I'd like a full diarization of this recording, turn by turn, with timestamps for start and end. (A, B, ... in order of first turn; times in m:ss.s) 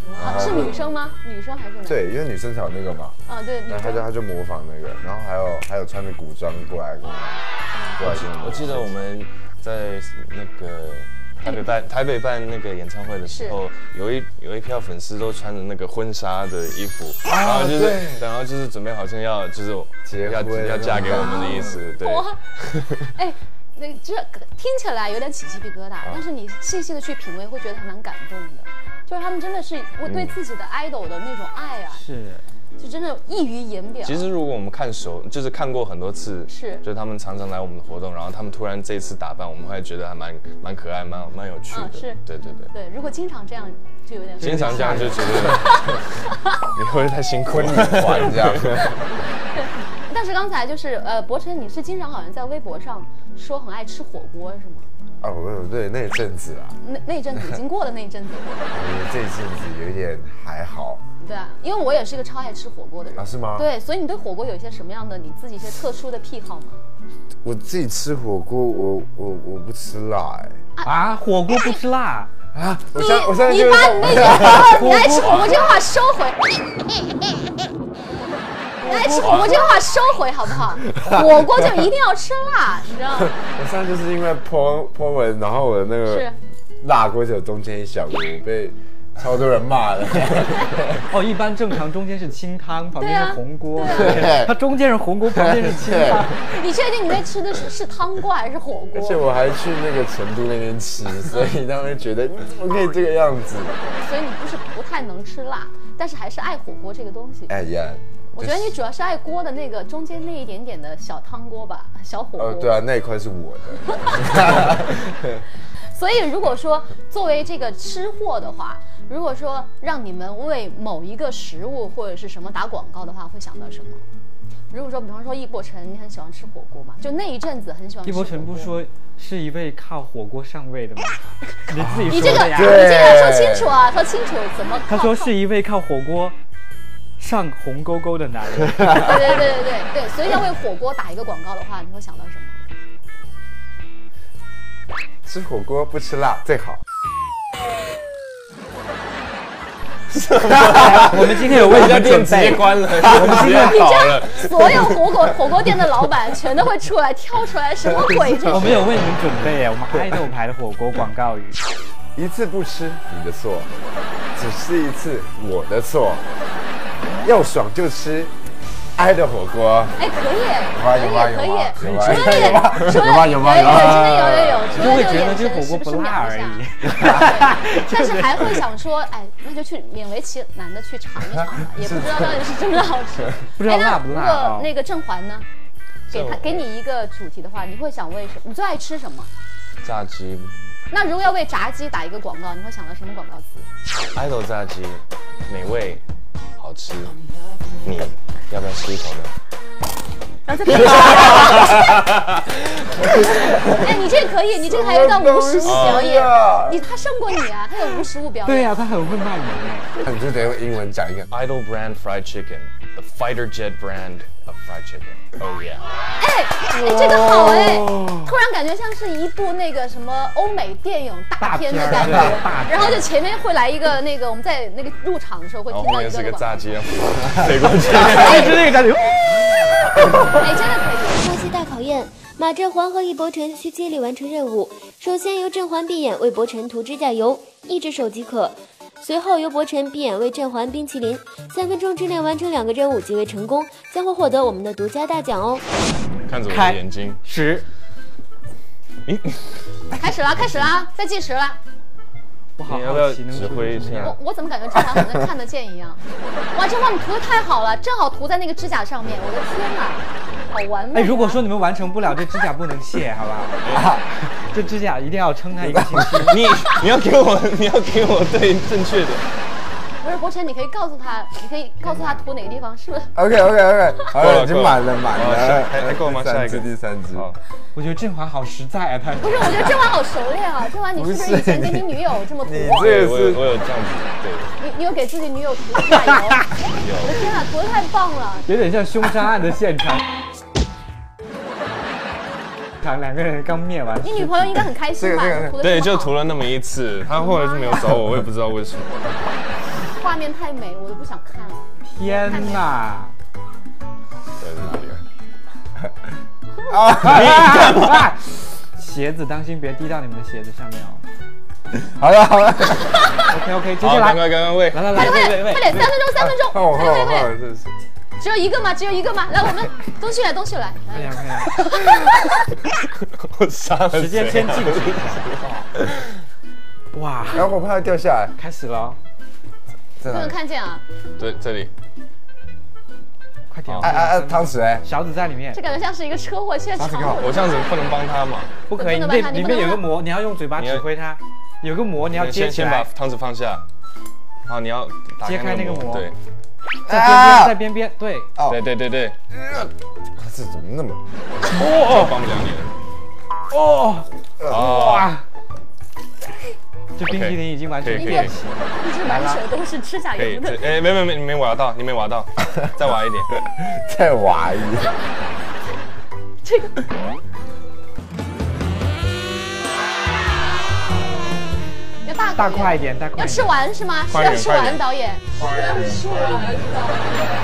0:00.2-0:00.8 A
0:00.2-0:02.0 B
0:01.9-0:03.2 A
0:03.3-0:04.1 B
0:03.7-0:08.9 A
0:08.0-0:23.1 C
0:11.4-0:11.7 B
0:13.3-0:13.6 B
0:17.2-0:18.2 A
0:20.0-0:21.7 A
0:21.5-0:32.0 B
0:30.1-0:30.4 C
0:31.9-0:32.4 D
0:32.8-0:34.3 B
0:34.0-0:42.7 C
0:36.5-0:36.8 B
0:41.7-0:46.6 B
0:44.4-0:46.0 C
0:44.4-0:45.2 D
0:46.7-0:49.0 C
0:47.5-0:49.0 A
0:49.2-0:54.9 B
0:55.2-0:56.8 A
0:56.8-0:58.7 B
0:58.7-1:01.0 A
1:01.2-1:06.8 B
1:03.2-1:03.7 A
1:07.4-1:10.6 A
1:10.8-1:11.8 B
1:10.8-1:12.3 D
1:12.5-1:15.0 A
1:13.0-1:16.5 B
1:14.4-1:15.5 D
1:15.2-1:15.6 C
1:18.8-1:23.4 B
1:18.8-1:19.4 D
1:19.1-1:19.7 C
1:21.0-1:21.5 A
1:23.2-1:31.0 A
1:26.1-1:26.4 B
1:31.1-1:36.5 D
1:33.0-1:34.4 B
1:33.9-1:34.6 A
1:35.3-1:36.3 A
1:36.4-1:39.3 B
1:38.9-1:43.8 A
1:43.8-1:47.5 B
1:47.5-1:48.8 A
1:48.4-1:52.7 B
1:52.4-1:55.4 A
1:53.9-1:54.2 B
1:55.9-2:04.0 B
2:04.7-2:08.8 B
2:08.0-2:13.0 D
2:11.9-2:13.8 A
2:12.1-2:15.4 B
2:14.9-2:16.4 D
2:17.2-2:19.4 D
2:18.9-2:22.5 B
2:25.2-2:26.8 A
2:30.1-2:35.9 C
2:30.5-2:33.9 D
2:33.3-2:38.8 B
2:38.1-2:38.4 A
2:38.5-2:41.6 D
2:42.2-2:43.7 A
2:44.4-2:46.3 A
2:47.2-2:48.3 A
2:49.0-2:50.0 A
2:50.0-3:05.5 B
2:50.7-2:54.8 A
2:51.9-2:52.4 D
2:54.2-2:55.2 C
2:54.8-2:58.6 D
3:01.8-3:02.5 A
3:03.6-3:04.7 D
3:06.1-3:06.7 C
3:06.1-3:09.3 B
3:09.8-3:10.5 C
3:10.9-3:13.7 B
3:14.2-3:16.0 C
3:16.6-3:17.2 C
3:17.8-3:19.3 C
3:20.5-3:22.1 B
3:21.0-3:22.0 C
3:23.0-3:26.8 A
3:23.8-3:28.8 B
3:25.6-3:26.3 C
3:28.4-3:29.9 D
3:30.0-3:31.3 A
3:31.3-3:35.8 C
3:36.2-3:46.7 B
3:36.8-3:38.1 A
3:41.4-3:43.1 D
3:45.7-3:48.7 C
3:47.9-3:48.6 B
3:47.9-3:50.4 D
3:50.4-3:51.4 B
3:51.2-4:05.6 E
4:06.3-4:07.2 C
4:06.5-4:07.7 D
4:09.1-4:09.6 C
4:09.9-4:11.6 B
4:12.6-4:14.2 D
4:12.7-4:14.2 C
4:14.0-4:21.4 B
4:20.9-4:26.5 D
4:23.6-4:23.9 C
4:23.7-4:24.0 A
4:25.7-4:26.3 A
4:26.3-4:29.2 C
4:30.0-4:33.1 B
4:33.2-4:37.3 A
4:34.1-4:37.4 C
4:37.8-4:39.8 D
4:39.2-4:42.9 B
4:40.9-4:43.5 A
4:42.8-4:44.5 C
4:44.6-4:46.5 B
4:45.9-4:46.4 D
4:46.8-4:47.2 C
4:47.0-4:48.5 B
4:48.5-4:50.0 D
4:52.8-4:54.7 D
4:54.0-4:56.2 B
4:55.0-4:55.6 A
4:55.6-4:59.1 C
4:57.2-4:57.9 B
4:59.9-5:02.7 B
5:01.8-5:03.1 D
5:04.4-5:05.0 C
5:06.7-5:07.7 A
5:06.9-5:11.0 D
5:07.0-5:08.1 C
5:11.8-5:13.1 A
5:13.3-5:15.9 D
5:13.8-5:15.2 C
5:14.9-5:17.3 B
5:16.1-5:17.8 A
5:18.2-5:22.4 B
5:20.9-5:21.6 D
5:23.1-5:25.9 C
5:23.9-5:25.7 D
5:26.9-5:27.5 D
5:27.3-5:28.4 A
5:28.4-5:29.0 D
5:30.0-5:30.4 A
5:30.1-5:30.8 B
5:31.2-5:31.7 C
5:33.5-5:35.6 D
5:33.7-5:33.9 C
5:33.8-5:34.9 A
5:35.5-5:37.7 B
5:36.8-5:37.3 A
5:37.2-5:38.6 C
5:38.7-5:42.9 D
5:38.8-5:39.9 B
5:40.6-5:40.9 C
5:42.1-5:43.6 C
5:44.5-5:46.2 C
5:45.2-5:46.1 D
5:46.9-5:47.6 A
5:46.9-5:48.3 D
5:48.5-5:49.2 C
5:49.3-5:51.0 A
5:51.5-5:52.7 C
5:51.5-5:52.2 D
5:53.5-5:55.2 D
5:54.5-5:55.2 C
5:57.0-5:59.4 D
5:57.0-5:58.3 C
5:57.9-6:00.7 B
6:00.2-6:03.3 C
6:03.5-6:05.0 A
6:04.8-6:05.1 B
6:06.4-6:06.8 B
6:12.0-6:17.2 B
6:12.3-6:13.5 D
6:14.1-6:14.8 C